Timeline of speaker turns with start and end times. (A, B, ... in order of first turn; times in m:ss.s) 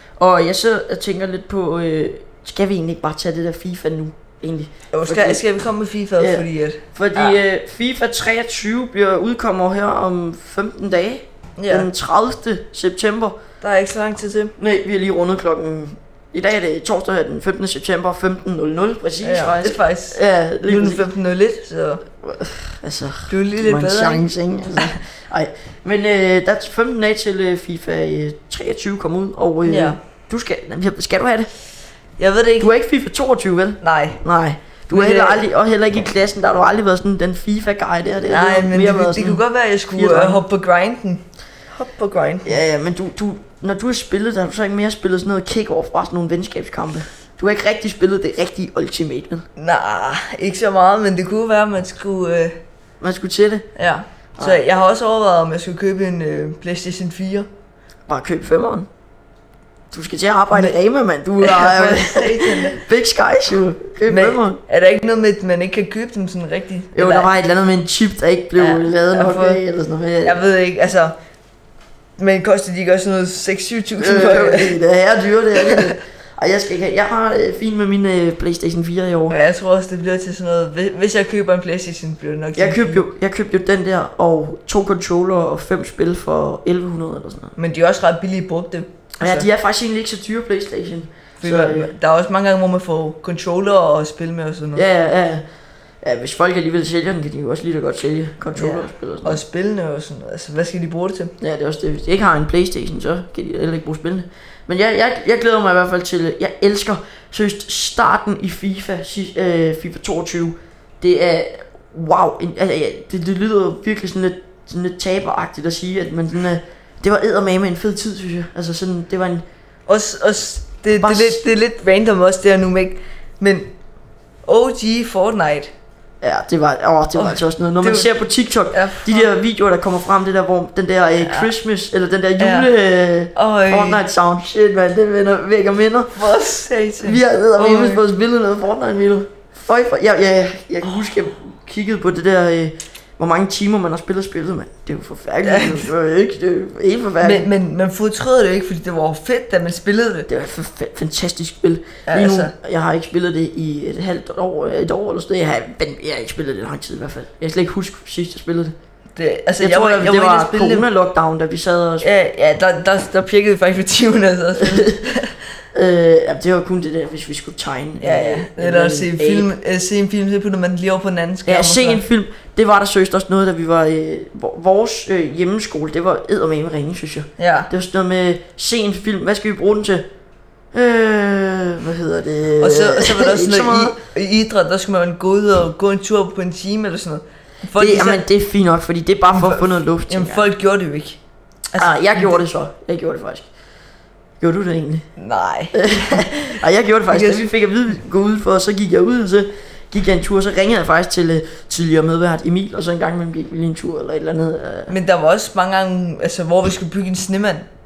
0:00.2-0:05.4 A
0:04.9-0:07.4 B
0:06.2-0:13.4 A
0:11.6-0:11.9 B
0:13.6-0:14.5 B
0:14.6-0:21.1 A
0:19.2-0:22.0 B
0:22.2-0:31.5 A
0:23.3-0:24.9 B
0:29.6-0:30.0 B
0:32.2-0:32.7 B
0:32.6-0:40.4 A
0:33.8-0:34.2 B
0:34.9-0:35.4 B
0:38.3-0:42.6 B
0:42.4-0:49.4 A
0:49.6-0:52.6 B
0:53.0-0:53.7 A
0:53.8-0:57.5 B
0:58.1-0:58.9 A
0:59.9-1:04.6 A
1:01.4-1:02.8 B
1:04.1-1:07.3 B
1:06.9-1:10.4 A
1:08.6-1:09.6 B
1:10.2-1:11.1 B
1:12.2-1:14.8 B
1:14.0-1:19.4 A
1:15.6-1:15.9 B
1:19.3-1:23.0 B
1:22.6-1:27.5 A
1:27.6-1:29.5 B
1:29.2-1:31.9 A
1:31.4-1:34.8 B
1:34.7-1:35.4 A
1:36.0-1:39.4 A
1:38.6-1:41.3 B
1:41.4-1:59.4 A
1:59.9-2:03.7 B
2:01.0-2:01.4 A
2:04.4-2:05.7 B
2:06.2-2:16.2 A
2:07.2-2:08.1 B
2:08.7-2:09.3 B
2:11.2-2:11.5 B
2:12.4-2:12.7 B
2:13.3-2:14.0 B
2:16.1-2:18.0 B
2:17.0-2:27.5 A
2:25.4-2:25.9 B
2:27.2-2:30.3 B
2:30.3-2:38.7 A
2:32.1-2:32.5 B
2:39.2-2:40.9 B
2:39.6-2:42.1 A
2:42.0-2:45.4 B
2:44.6-2:45.0 A
2:45.7-2:49.5 A
2:48.0-2:52.0 B
2:51.4-3:00.0 A
2:57.4-2:57.7 B
3:00.7-3:04.0 A
3:02.6-3:08.2 B
3:07.8-3:10.5 A
3:09.3-3:11.2 B
3:11.7-3:12.3 B
3:11.8-3:13.5 A
3:14.4-3:15.1 A
3:15.2-3:16.3 B
3:15.7-3:24.9 A
3:17.1-3:17.5 B
3:24.9-3:27.7 B